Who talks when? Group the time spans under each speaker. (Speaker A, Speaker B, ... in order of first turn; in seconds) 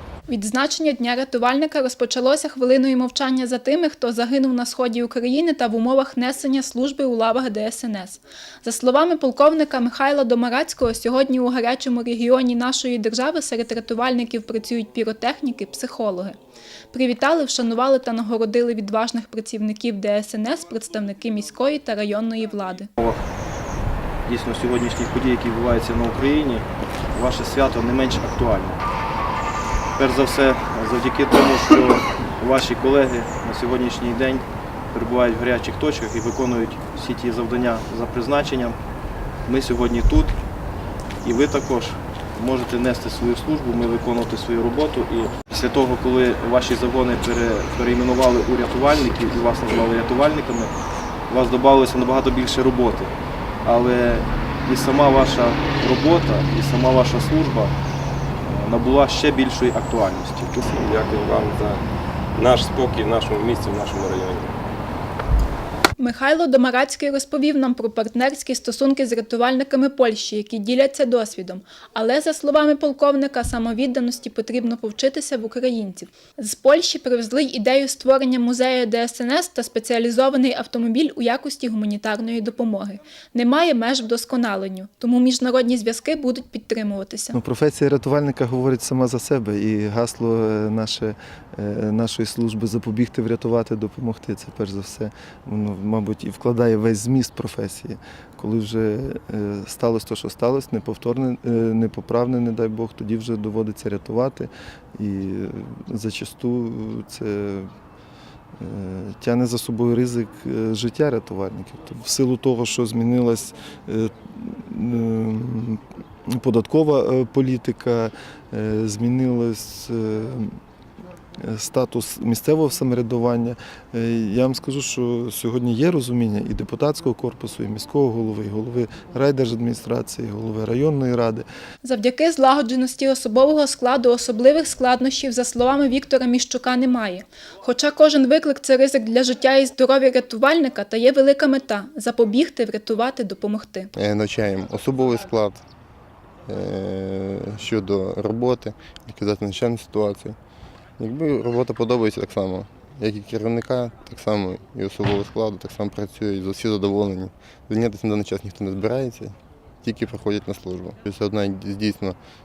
Speaker A: 0.3-16.4, 16.9-22.9, 66.0-87.4, 131.8-143.9
Speaker B: 24.3-28.8, 30.0-38.8, 39.5-40.3, 41.2-50.7, 51.3-53.1, 53.6-57.7, 58.4-60.6
Speaker C: 60.6-61.8, 62.4-64.6
Speaker D: 87.3-107.7, 108.6-120.6, 121.4-131.5
Speaker E: 144.0-145.6, 146.5-150.4, 151.0-162.2